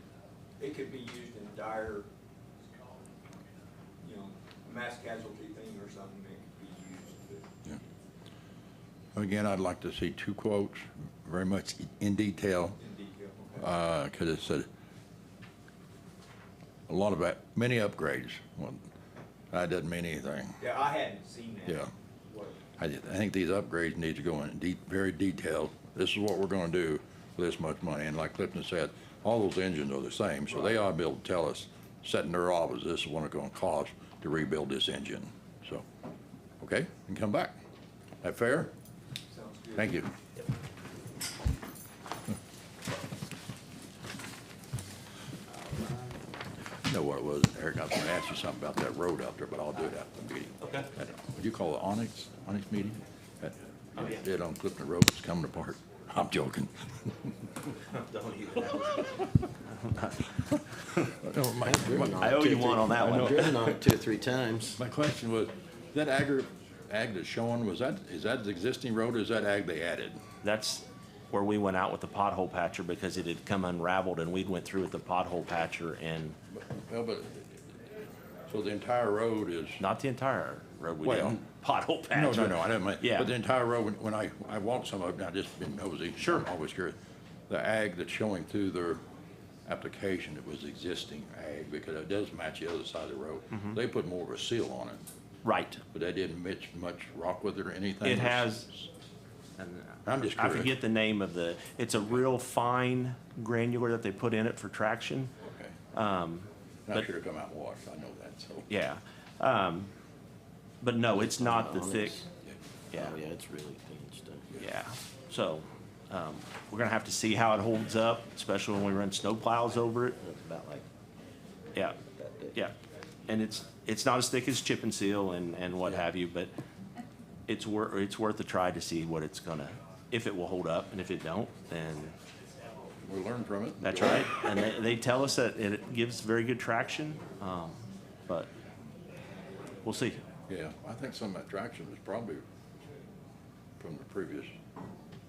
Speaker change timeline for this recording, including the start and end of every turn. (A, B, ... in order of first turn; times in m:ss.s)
0:00.6-0:02.1 A
0:04.0-0:07.5 A
0:09.2-0:12.8 B
0:12.8-0:13.7 A
0:13.6-0:14.7 B
0:16.9-0:18.9 B
0:19.5-0:20.6 B
0:20.6-0:22.6 A
0:21.7-0:21.9 B
0:22.8-0:35.8 B
0:36.6-0:37.6 B
0:38.2-0:38.7 B
0:39.3-0:40.0 A
0:39.8-0:40.1 B
0:46.9-0:57.4 B
0:58.1-0:58.7 C
0:59.9-1:00.2 C
1:01.0-1:03.7 B
1:01.6-1:04.8 D
1:02.0-1:03.7 C
1:04.8-1:10.2 B
1:10.4-1:16.4 C
1:16.5-1:17.8 B
1:18.5-1:19.8 B
1:19.8-1:23.3 C
1:21.0-1:21.4 B
1:22.1-1:27.0 B
1:26.2-1:26.5 C
1:27.5-1:29.0 B
1:29.7-1:35.0 B
1:35.4-1:35.8 C
1:35.9-1:38.9 B
1:38.0-1:38.7 C
1:39.6-1:45.3 C
1:40.0-1:40.8 B
1:45.4-1:45.8 B
1:45.9-1:47.1 C
1:46.9-1:48.7 B
1:48.7-1:49.9 C
1:50.8-1:52.2 C
1:51.1-1:52.3 D
1:52.9-1:53.2 C
1:52.9-1:54.5 D
1:54.6-2:00.2 C
2:00.2-2:00.9 D
2:02.0-2:02.6 D
2:03.3-2:06.5 C
2:07.5-2:12.2 C
2:13.0-2:14.3 B
2:13.8-2:18.5 C
2:19.8-2:20.2 C
2:20.5-2:22.4 B
2:23.8-2:24.5 B